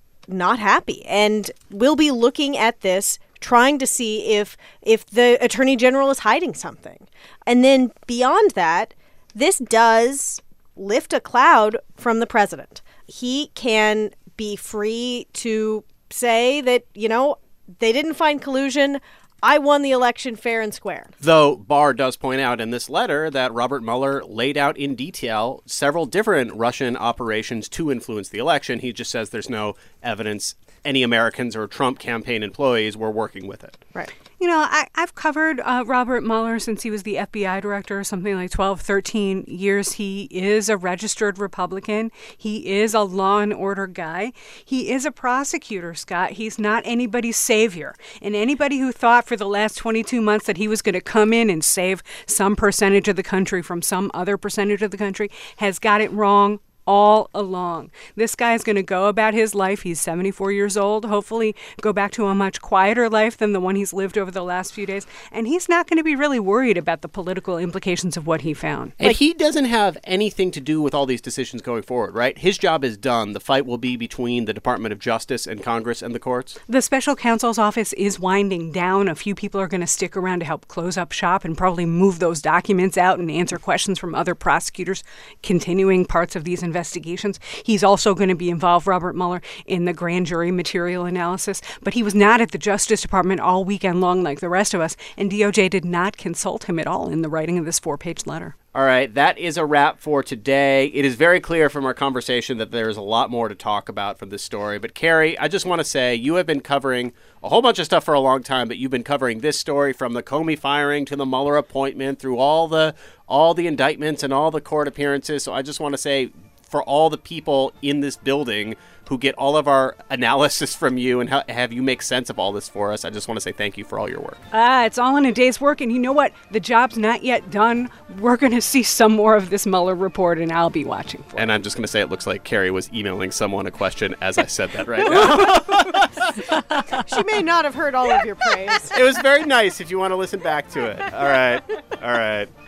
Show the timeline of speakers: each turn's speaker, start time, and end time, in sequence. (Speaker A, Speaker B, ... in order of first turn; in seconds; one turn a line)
Speaker A: 0.3-21.1
Speaker B: 21.2-33.8
Speaker C: 34.4-69.2
Speaker B: 69.0-76.6
Speaker C: 76.7-98.5
Speaker B: 98.7-124.4
Speaker C: 124.5-131.4
Speaker B: 131.4-136.4
Speaker A: 136.9-138.9
Speaker B: 138.9-142.5